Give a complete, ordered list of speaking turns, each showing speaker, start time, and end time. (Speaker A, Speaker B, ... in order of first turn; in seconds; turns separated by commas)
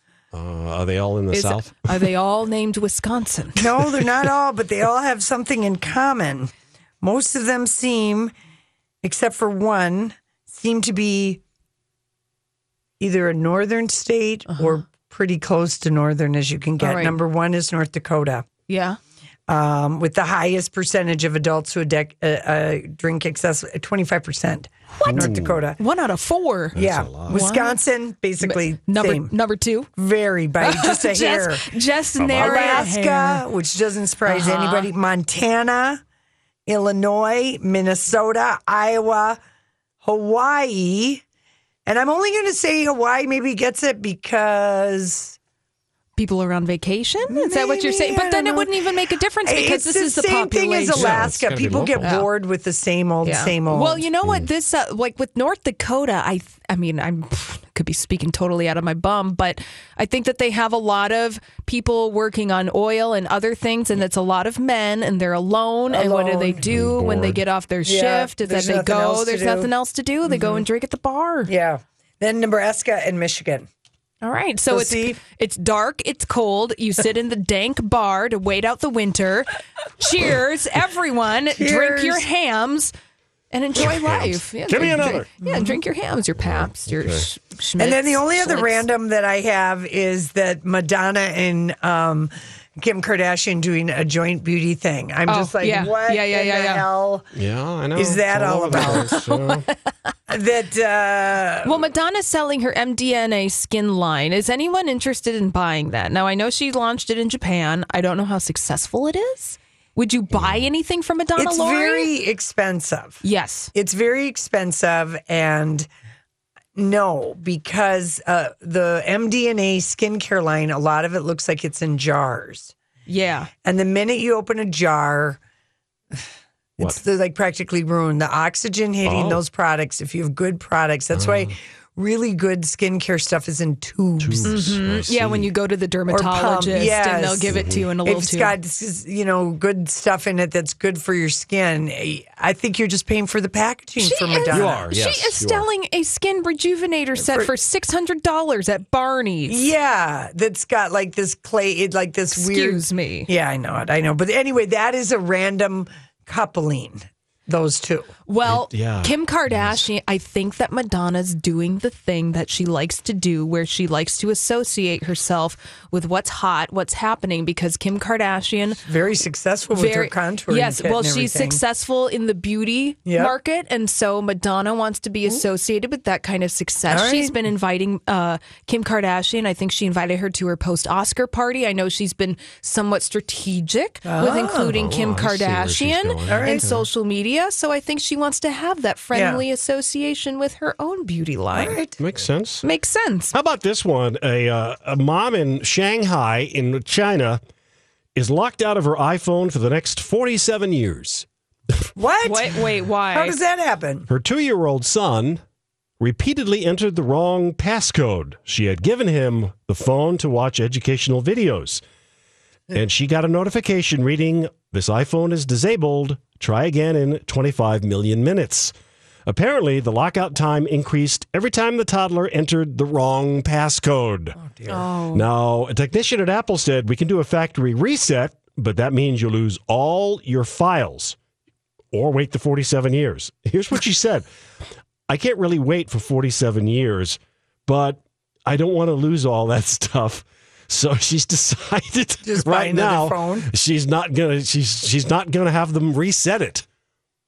Speaker A: 0.3-1.8, Speaker B: 1.3-3.7, Speaker C: 3.6-8.3, Speaker C: 9.0-11.4, Speaker C: 13.0-18.4, Speaker B: 14.5-14.7, Speaker B: 16.8-17.2, Speaker B: 18.7-19.0, Speaker C: 19.5-25.8, Speaker B: 25.0-27.8, Speaker A: 25.1-25.6, Speaker A: 26.7-27.4, Speaker C: 26.7-29.3, Speaker B: 28.4-29.9, Speaker C: 30.0-31.7, Speaker B: 30.6-33.4, Speaker A: 32.2-32.9, Speaker C: 32.3-36.0, Speaker B: 34.3-34.9, Speaker C: 36.7-39.4, Speaker C: 40.0-41.2, Speaker C: 41.9-45.4, Speaker B: 46.2-51.2, Speaker C: 47.3-48.7, Speaker C: 49.4-54.0, Speaker A: 50.9-52.2, Speaker B: 52.0-52.3, Speaker B: 53.2-71.5, Speaker C: 65.9-66.6, Speaker A: 66.7-67.4, Speaker C: 67.8-69.7, Speaker C: 70.3-70.6, Speaker C: 71.5-73.7, Speaker B: 74.2-82.9, Speaker C: 74.7-75.2, Speaker C: 81.5-82.2, Speaker B: 83.5-88.9, Speaker A: 83.7-85.3, Speaker C: 85.4-85.8, Speaker A: 86.4-87.2, Speaker C: 87.8-97.3, Speaker B: 95.3-96.8, Speaker A: 97.3-99.7, Speaker C: 98.0-99.1, Speaker B: 98.8-99.9, Speaker C: 100.3-101.8, Speaker B: 101.6-112.1, Speaker A: 110.3-110.6, Speaker C: 111.4-113.2, Speaker B: 113.2-113.7, Speaker C: 113.7-115.9, Speaker C: 116.8-122.7, Speaker B: 123.1-123.5, Speaker C: 123.6-125.4, Speaker C: 126.8-134.7, Speaker A: 129.0-129.4, Speaker A: 131.1-131.5, Speaker A: 134.2-135.5, Speaker B: 134.4-138.5, Speaker C: 136.1-144.9, Speaker A: 137.5-137.9, Speaker B: 144.0-149.6, Speaker A: 144.5-145.7, Speaker C: 147.2-147.5, Speaker C: 149.5-158.1, Speaker B: 152.3-153.3, Speaker B: 158.3-168.8, Speaker A: 158.4-159.9, Speaker C: 168.8-171.6, Speaker B: 169.7-191.8, Speaker C: 173.1-173.3, Speaker C: 176.9-177.4, Speaker C: 184.0-184.7, Speaker A: 184.7-186.8, Speaker C: 186.3-186.6, Speaker C: 189.1-189.4, Speaker C: 191.5-191.9, Speaker A: 192.0-192.6, Speaker B: 192.6-193.3, Speaker A: 193.3-197.4, Speaker A: 198.1-201.2, Speaker C: 201.9-202.6, Speaker B: 202.2-203.4, Speaker C: 203.1-204.1, Speaker A: 204.1-205.4, Speaker A: 206.0-211.8, Speaker A: 212.7-218.7, Speaker A: 219.2-224.4, Speaker C: 224.4-224.8, Speaker B: 224.7-225.2, Speaker A: 225.1-231.2, Speaker A: 231.9-234.2, Speaker A: 235.1-246.6, Speaker C: 242.2-243.5